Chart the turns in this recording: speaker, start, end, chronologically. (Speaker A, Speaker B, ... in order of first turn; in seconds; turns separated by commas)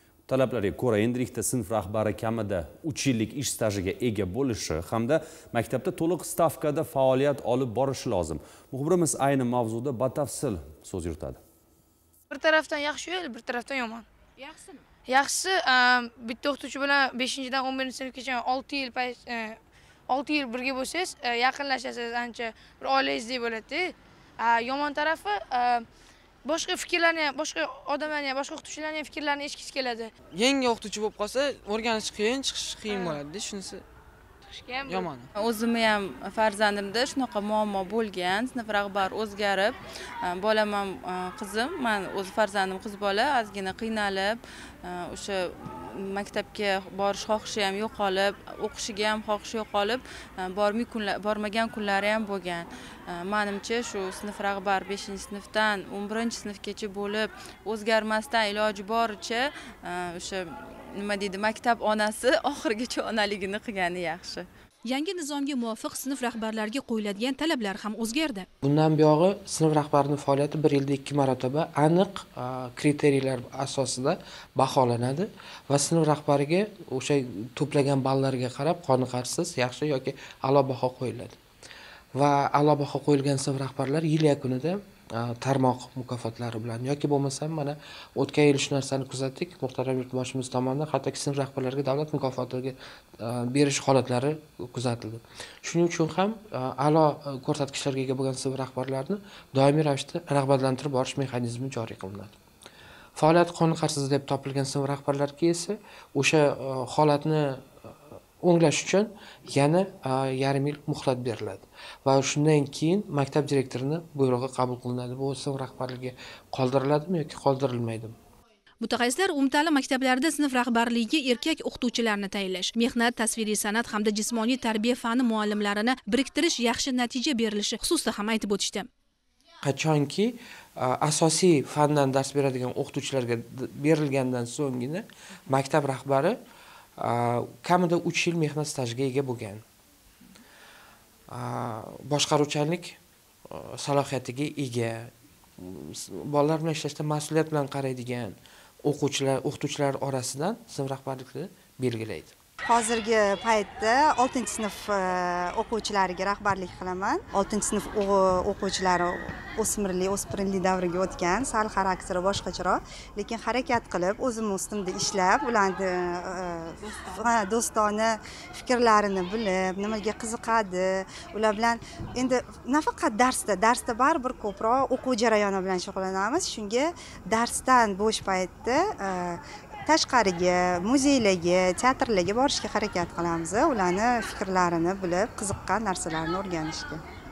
Speaker A: 0.3-11.4, Speaker B: 12.3-14.1, Speaker B: 15.1-25.9, Speaker B: 26.4-30.1, Speaker C: 30.3-33.8, Speaker B: 32.9-33.2, Speaker B: 34.5-35.1, Speaker C: 34.9-35.2, Speaker D: 35.4-39.7, Speaker D: 40.2-60.4, Speaker D: 61.0-64.4, Speaker E: 64.8-68.5, Speaker F: 68.6-81.4, Speaker F: 82.2-102.3, Speaker F: 103.2-107.6, Speaker F: 108.4-118.1, Speaker E: 118.8-128.9, Speaker F: 129.6-136.3, Speaker F: 137.0-139.6, Speaker F: 141.3-143.0, Speaker F: 143.5-152.3, Speaker G: 152.7-187.0